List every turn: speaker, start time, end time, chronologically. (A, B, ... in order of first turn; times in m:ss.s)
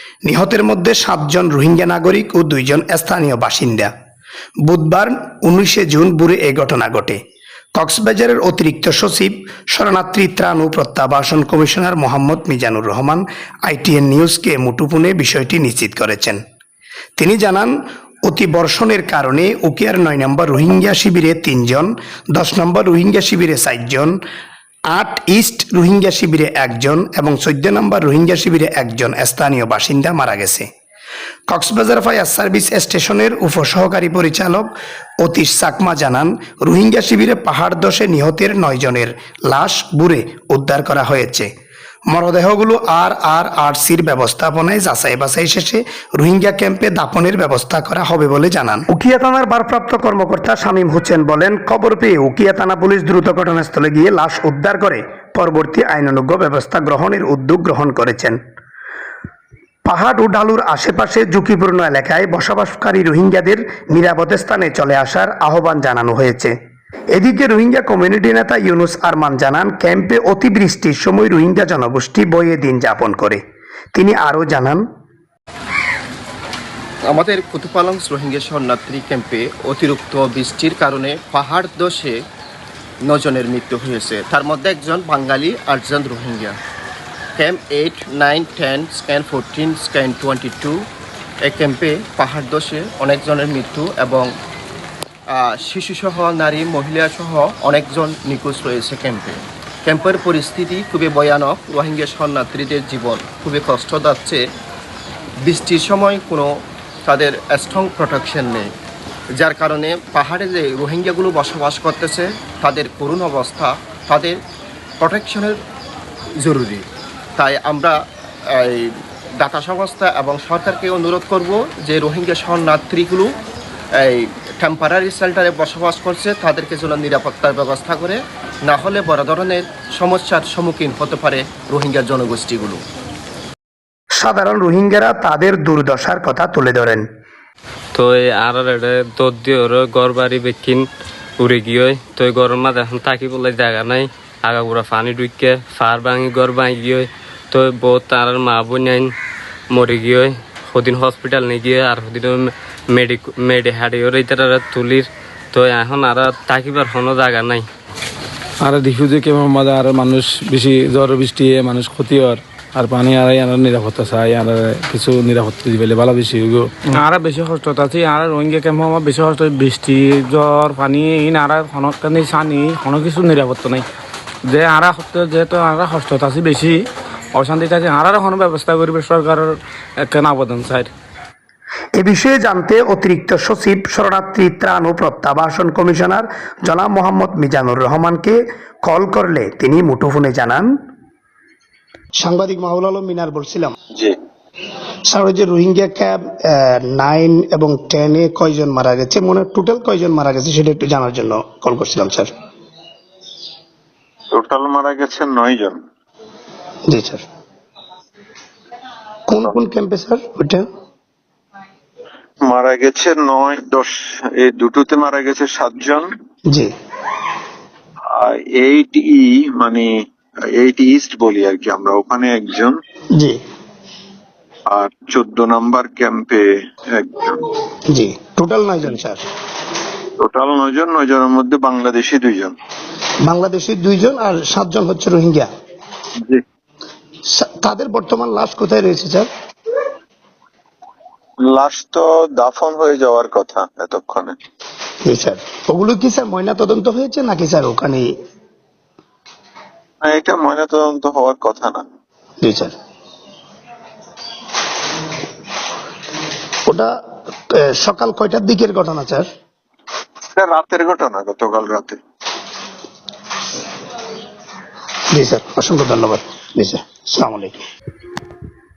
0:00.2-0:03.9 A
0:04.7-0:07.2 A
0:07.8-0:16.4 A
0:17.2-0:24.2 A
0:24.9-0:30.7 A
0:31.5-0:34.7 A
0:35.2-0:41.5 A
0:42.1-0:58.4 A
0:59.8-1:06.5 A
1:07.1-1:13.4 A
1:13.9-1:14.8 A
1:17.0-1:22.2 B
1:23.0-1:26.6 B
1:27.4-1:30.8 B
1:31.4-1:34.3 B
1:35.3-1:44.4 B
1:45.4-1:48.7 B
1:49.4-1:54.4 B
1:55.0-1:55.6 B
1:56.4-1:58.0 B
1:58.5-2:03.4 B
2:04.0-2:12.8 B
2:14.2-2:17.0 A
2:17.9-2:20.9 C
2:21.4-2:29.1 C
2:29.7-2:37.7 C
2:38.6-2:53.8 D
2:54.5-3:00.9 D
3:02.0-3:10.7 A
3:12.2-3:13.8 A
3:15.1-3:22.3 A
3:24.3-3:25.8 E
3:26.9-3:27.2 A
3:29.3-3:30.6 A
3:32.4-3:36.1 E
3:38.2-3:42.8 E
3:44.7-3:47.5 E
3:47.9-3:49.2 A
3:50.2-3:52.6 E
3:53.3-3:55.5 A
3:57.3-3:59.3 A
4:01.4-4:04.4 E
4:05.1-4:08.1 A
4:10.0-4:11.8 E
4:12.4-4:12.7 A
4:17.5-4:19.3 A
4:20.4-4:22.0 E
4:25.1-4:27.6 A